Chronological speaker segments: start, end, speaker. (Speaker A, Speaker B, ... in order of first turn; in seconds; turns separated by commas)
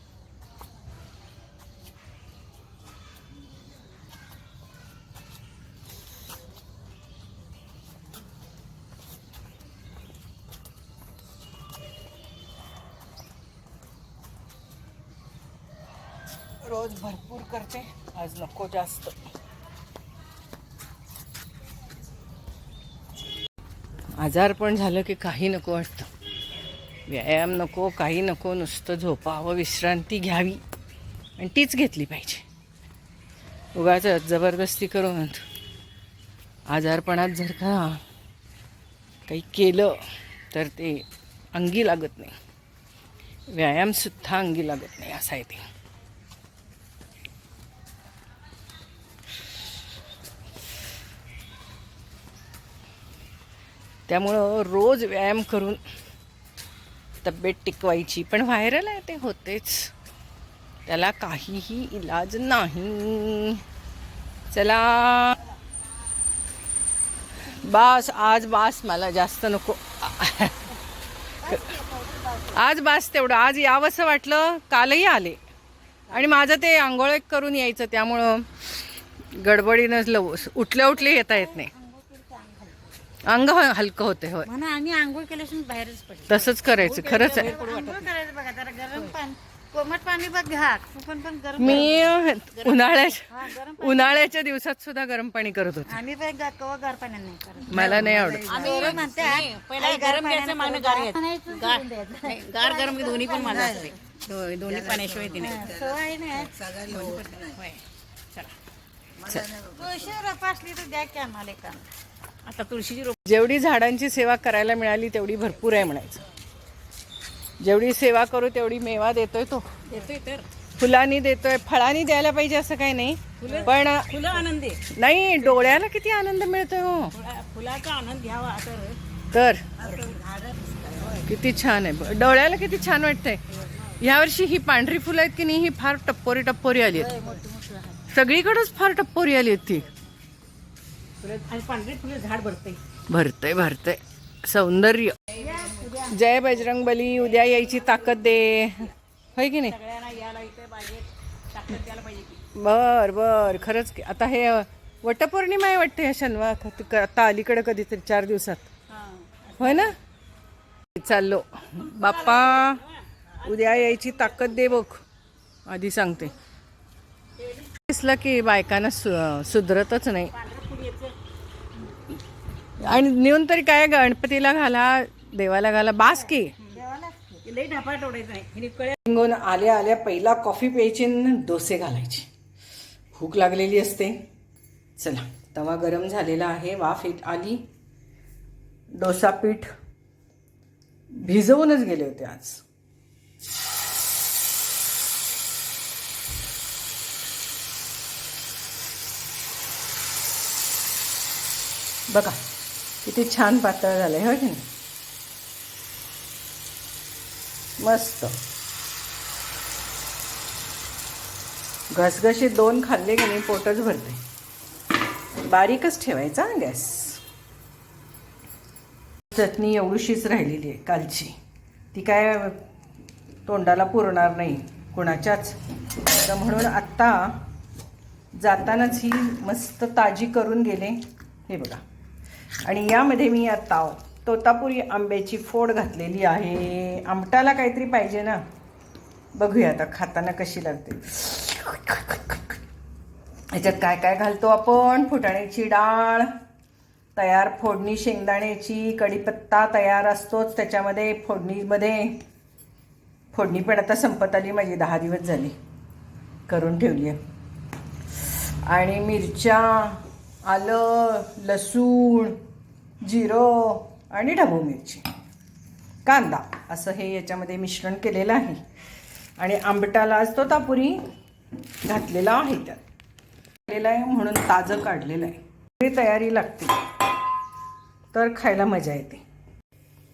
Speaker A: 16.6-19.2, Speaker A: 24.2-26.1, Speaker A: 27.1-30.6, Speaker A: 31.4-32.5, Speaker A: 33.8-35.5, Speaker A: 36.7-38.0, Speaker A: 39.3-42.4, Speaker A: 43.5-45.6, Speaker A: 54.1-55.8, Speaker A: 57.2-59.9, Speaker A: 60.9-63.6, Speaker A: 64.5-65.4, Speaker A: 67.4-70.8, Speaker A: 71.4-71.8, Speaker B: 71.6-72.5, Speaker A: 72.5-75.4, Speaker A: 76.1-81.7, Speaker B: 81.8-82.8, Speaker A: 83.3-84.5, Speaker B: 84.5-86.4, Speaker A: 86.3-87.6, Speaker C: 86.8-88.1, Speaker B: 87.3-92.1, Speaker A: 91.6-96.0, Speaker B: 93.4-94.0, Speaker B: 95.9-97.8, Speaker A: 97.7-99.0, Speaker C: 98.4-105.9, Speaker B: 98.6-104.1, Speaker B: 105.4-107.6, Speaker C: 106.8-107.6, Speaker A: 109.2-109.6, Speaker B: 109.6-111.9, Speaker C: 112.5-113.2, Speaker A: 113.2-116.2, Speaker A: 117.6-119.7, Speaker C: 119.9-120.5, Speaker A: 120.8-127.2, Speaker C: 123.4-124.8, Speaker C: 127.2-129.0, Speaker A: 129.3-129.7, Speaker B: 130.0-131.1, Speaker A: 131.1-137.3, Speaker B: 137.2-137.9, Speaker A: 138.1-139.9, Speaker C: 141.2-142.8, Speaker A: 143.1-145.4, Speaker B: 145.4-146.1, Speaker C: 145.6-145.9, Speaker A: 146.0-149.8, Speaker C: 149.7-152.4, Speaker A: 152.5-158.7, Speaker A: 159.6-159.9, Speaker A: 160.9-165.0, Speaker A: 165.7-166.3, Speaker A: 167.6-170.4, Speaker B: 170.5-170.8, Speaker A: 172.8-176.6, Speaker B: 176.7-177.4, Speaker C: 177.4-179.0, Speaker A: 179.1-182.3, Speaker A: 183.1-184.2, Speaker A: 185.0-187.7, Speaker A: 189.0-189.7, Speaker A: 191.1-192.6, Speaker A: 202.1-202.4, Speaker A: 203.0-204.7, Speaker A: 207.8-208.4, Speaker A: 211.9-214.2, Speaker A: 215.4-217.2, Speaker A: 219.3-221.4, Speaker A: 221.9-222.6, Speaker A: 223.5-227.4, Speaker A: 228.3-231.8, Speaker A: 232.7-238.4, Speaker A: 239.3-242.6, Speaker A: 243.5-246.3, Speaker A: 247.2-252.2, Speaker A: 253.3-255.6, Speaker A: 256.5-257.2, Speaker A: 258.3-262.4, Speaker A: 263.0-265.1, Speaker A: 266.1-268.6, Speaker A: 269.4-271.0, Speaker A: 271.8-272.8, Speaker A: 273.7-276.9, Speaker A: 278.1-279.2